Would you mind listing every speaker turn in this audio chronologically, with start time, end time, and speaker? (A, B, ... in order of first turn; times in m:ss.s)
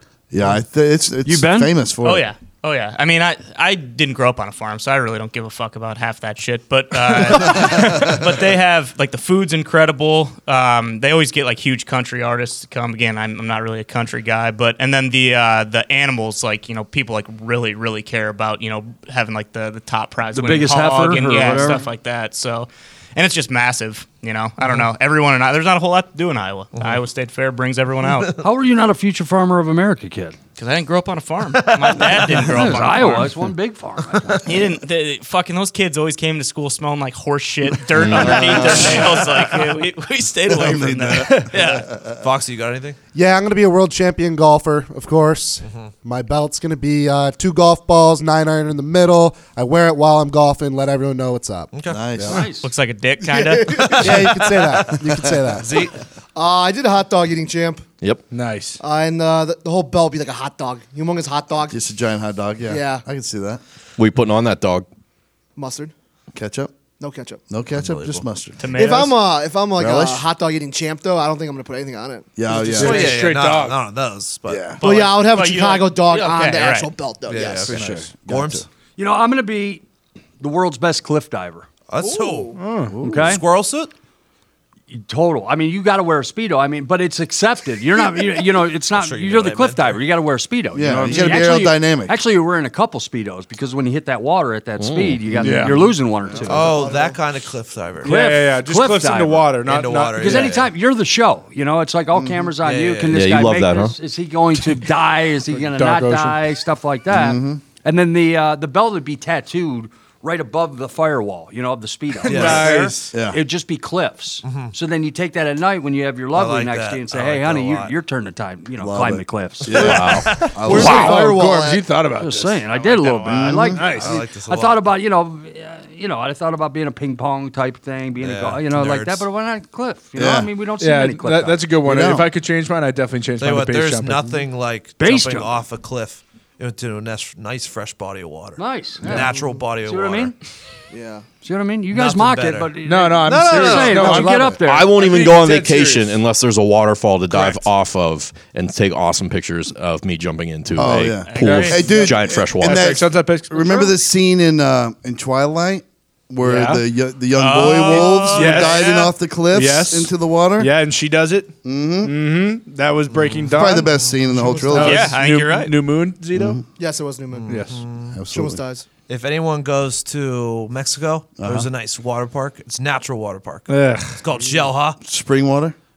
0:00.3-0:02.3 A
0:01.2-0:01.7 B
0:02.0-0:28.3 C
0:07.5-0:08.2 A
0:20.3-0:21.8 B
0:24.6-0:24.9 D
0:26.8-0:27.0 D
0:28.0-0:28.4 D
0:28.4-0:30.4 B
0:30.6-0:33.4 C
0:31.5-0:32.7 D
0:32.2-0:34.4 B
0:34.4-0:41.9 C
0:38.0-0:38.3 E
0:38.0-0:39.4 A
0:38.5-0:39.3 D
0:40.5-0:42.2 A
0:42.2-0:43.0 D
0:43.1-0:51.7 F
0:51.7-0:52.3 D
0:51.9-0:52.5 A
0:52.2-0:52.7 B
0:52.6-0:54.2 C
0:53.2-0:54.0 G
0:54.0-0:55.8 F
0:55.5-0:55.9 D
0:56.3-0:57.8 G
0:58.3-0:58.8 H
0:58.8-1:01.8 G
1:01.7-1:03.6 A
1:02.6-1:03.0 G
1:04.0-1:04.8 E
1:05.6-1:05.9 G
1:06.3-1:06.7 A
1:07.0-1:07.4 G
1:07.5-1:09.1 A
1:07.7-1:08.2 D
1:08.6-1:09.2 C
1:08.8-1:12.3 G
1:09.8-1:10.2 A
1:12.4-1:13.2 A
1:12.5-1:13.8 H
1:12.5-1:15.2 D
1:14.5-1:14.8 A
1:14.8-1:16.9 C
1:14.8-1:17.7 G
1:17.2-1:18.6 D
1:17.7-1:18.6 A
1:17.7-1:18.1 H
1:19.0-1:19.8 B
1:20.4-1:21.7 B
1:21.9-1:23.9 D
1:22.0-1:22.4 G
1:22.5-1:23.0 H
1:22.9-1:23.3 A
1:23.0-1:23.4 B
1:24.9-1:36.7 B
1:28.9-1:30.0 D
1:30.7-1:32.2 A
1:31.0-1:31.5 H
1:34.8-1:35.2 E
1:35.3-1:37.1 A
1:35.4-1:35.8 H
1:36.4-1:38.2 D
1:38.0-1:39.6 B
1:38.0-1:40.6 H
1:39.6-1:40.7 D
1:40.2-2:00.0 B
1:42.1-1:42.5 A
1:42.6-1:43.2 D
1:43.1-1:44.0 E
1:45.5-1:46.4 H
1:47.1-1:47.6 A
1:52.2-1:53.2 H
1:52.2-1:52.8 D
1:53.1-1:53.4 A
1:54.4-1:54.7 D
1:56.3-1:57.9 D
1:58.8-2:01.5 A
1:59.7-2:00.6 D
1:59.8-2:04.2 H
2:00.6-2:01.8 G
2:00.7-2:01.1 B
2:02.2-2:11.6 B
2:03.2-2:03.8 A
2:03.8-2:04.8 D
2:08.2-2:09.2 D
2:10.2-2:10.5 A
2:10.8-2:14.3 H
2:11.8-2:12.3 A
2:13.4-2:20.3 D
2:15.0-2:15.5 B
2:18.6-2:20.3 B
2:20.9-2:21.2 G
2:21.4-2:24.9 B
2:21.9-2:22.7 D
2:22.8-2:26.2 H
2:23.2-2:24.3 D
2:24.6-2:32.9 E
2:27.3-2:27.6 D
2:30.7-2:40.7 A
2:31.1-2:32.0 C
2:31.4-2:33.8 H
2:36.4-2:36.8 H
2:37.3-2:39.1 C
2:38.3-2:38.9 H
2:39.5-2:46.6 H
2:41.6-2:42.2 A
2:43.5-2:45.2 A
2:44.7-2:45.8 C
2:46.3-2:46.6 A
2:46.8-2:47.6 G
2:47.3-2:48.2 D
2:47.5-2:47.8 H
2:48.1-2:48.6 A
2:48.3-2:48.8 G
2:49.1-2:55.0 D
2:51.4-2:51.7 A
2:53.7-2:54.2 H
2:55.0-2:55.8 A